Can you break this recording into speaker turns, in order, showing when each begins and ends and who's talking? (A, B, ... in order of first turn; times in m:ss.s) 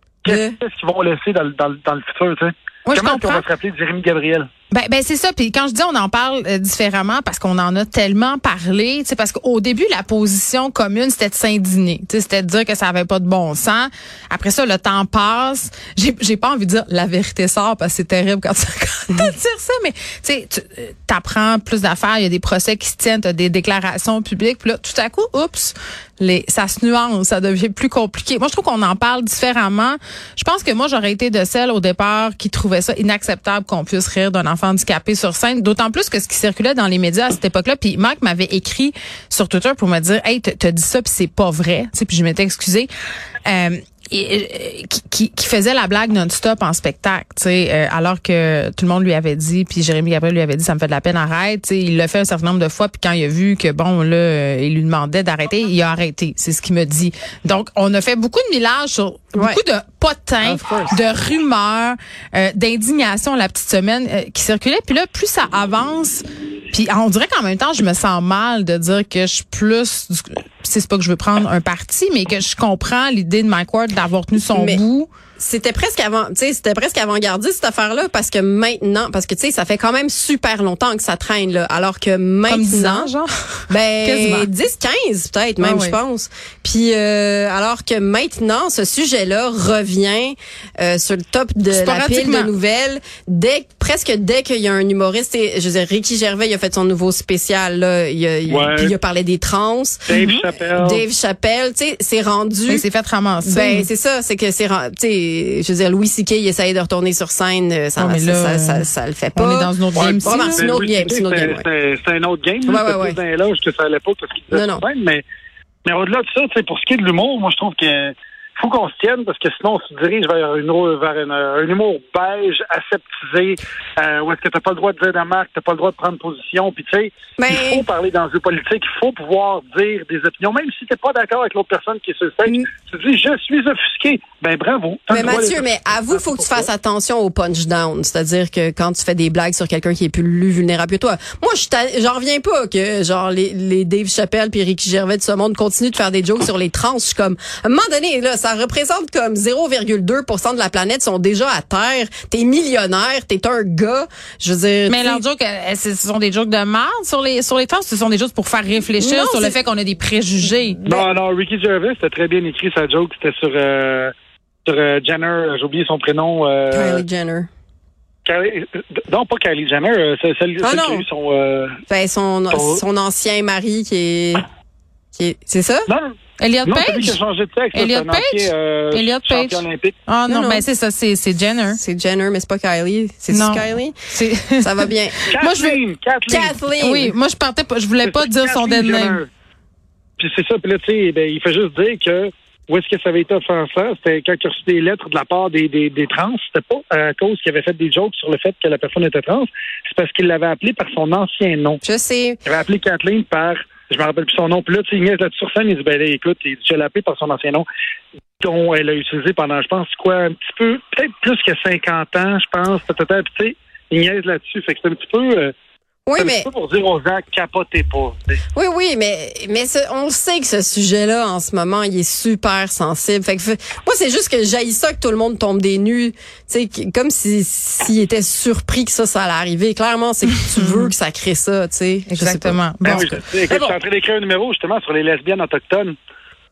0:00.2-0:04.5 A
0:00.2-0:00.6 B
0:02.9-0:03.4 C
0:04.7-0:42.9 C
0:43.4-1:15.1 C
0:59.4-0:59.6 B
1:00.4-1:01.0 B
1:14.5-1:14.8 B
1:15.4-1:23.1 B
1:22.5-1:24.5 C
1:23.7-1:40.1 B
1:25.6-1:26.0 C
1:31.7-1:32.5 C
1:38.5-1:38.9 A
1:40.1-1:41.0 A
1:40.1-1:40.4 C
1:40.7-1:42.8 B
1:42.7-1:43.9 C
1:43.4-1:51.7 B
1:48.0-1:50.7 C
1:49.9-1:55.2 A
1:52.7-1:53.2 B
1:54.5-1:54.8 B
1:55.8-2:16.7 A
2:07.4-2:07.8 B
2:15.1-2:35.2 B
2:34.9-2:40.8 C
2:39.0-2:39.6 B
2:40.8-2:44.1 A
2:44.7-2:47.0 A
2:46.7-2:47.5 B
2:48.2-2:51.8 A
2:50.6-2:51.0 B
2:51.9-2:54.4 B
2:52.5-2:52.8 A
2:55.2-2:55.9 B
2:55.9-3:00.0 A
2:56.4-2:57.2 C
2:57.7-3:01.8 C
3:00.3-3:00.6 B
3:01.7-3:03.9 B
3:03.3-3:04.7 C
3:04.6-3:05.2 B
3:05.3-3:05.8 C
3:05.3-3:06.6 A
3:06.3-3:07.2 B
3:06.8-3:09.2 C
3:08.0-3:09.3 A
3:10.2-3:21.8 A
3:21.8-3:22.4 B
3:22.4-3:27.7 A
3:28.4-3:35.5 A
3:36.1-3:36.5 B
3:36.2-3:38.2 A
3:38.6-3:53.8 B
3:50.6-3:50.9 C
3:52.1-3:53.2 C
3:52.8-3:56.0 A